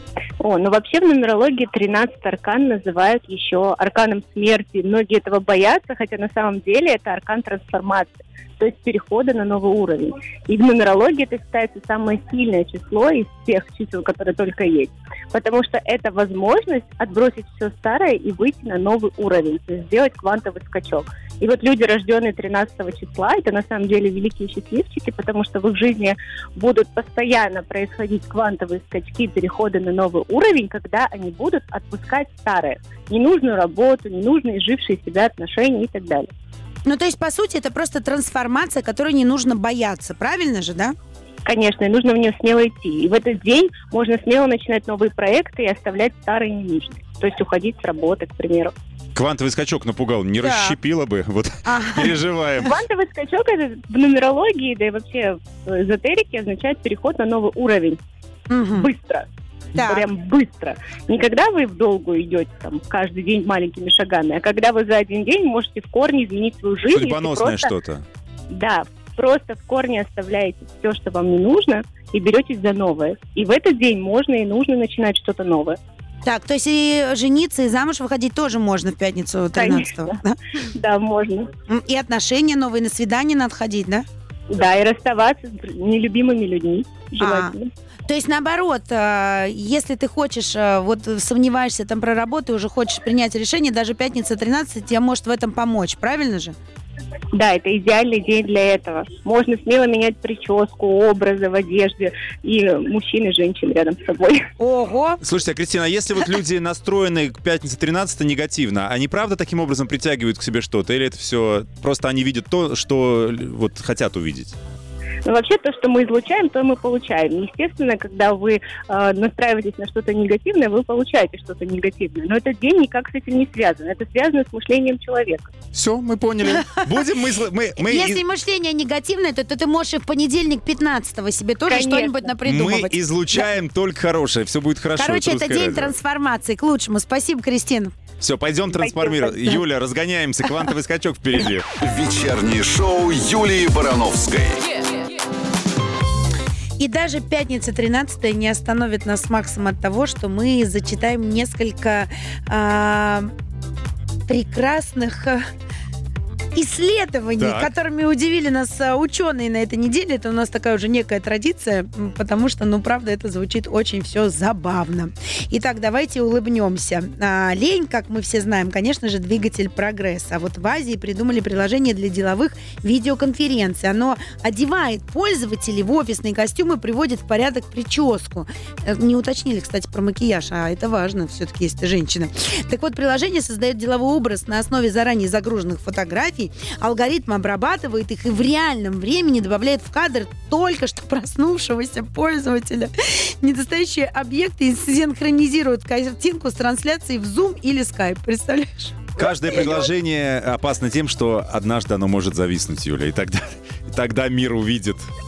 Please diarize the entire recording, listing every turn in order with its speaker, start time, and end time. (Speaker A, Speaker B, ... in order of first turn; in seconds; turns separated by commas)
Speaker A: 0.4-36.3, Speaker B: 36.9-40.9, Speaker A: 41.4-48.7, Speaker C: 49.1-52.7, Speaker B: 50.4-50.8, Speaker B: 51.6-52.2, Speaker A: 52.6-58.0, Speaker B: 58.5-58.9, Speaker A: 58.7-67.7, Speaker B: 59.7-60.1, Speaker C: 66.9-68.0, Speaker A: 68.5-75.8, Speaker B: 76.2-80.4, Speaker A: 79.5-80.1, Speaker A: 80.7-81.5, Speaker B: 81.7-84.0, Speaker A: 84.5-87.7, Speaker B: 87.2-87.5, Speaker B: 88.1-96.5, Speaker A: 97.3-104.5, Speaker B: 104.6-105.2, Speaker C: 105.2-114.5, Speaker A: 115.2-125.5, Speaker C: 125.7-128.2, Speaker B: 126.6-126.9, Speaker B: 127.8-133.4, Speaker A: 131.7-132.3, Speaker C: 132.4-135.9, Speaker B: 135.0-137.9, Speaker C: 138.2-141.7, Speaker A: 138.8-139.4, Speaker D: 141.8-144.6, Speaker B: 146.8-153.3, Speaker B: 154.3-155.4, Speaker B: 156.5-199.9, Speaker C: 157.4-157.7, Speaker C: 199.2-205.1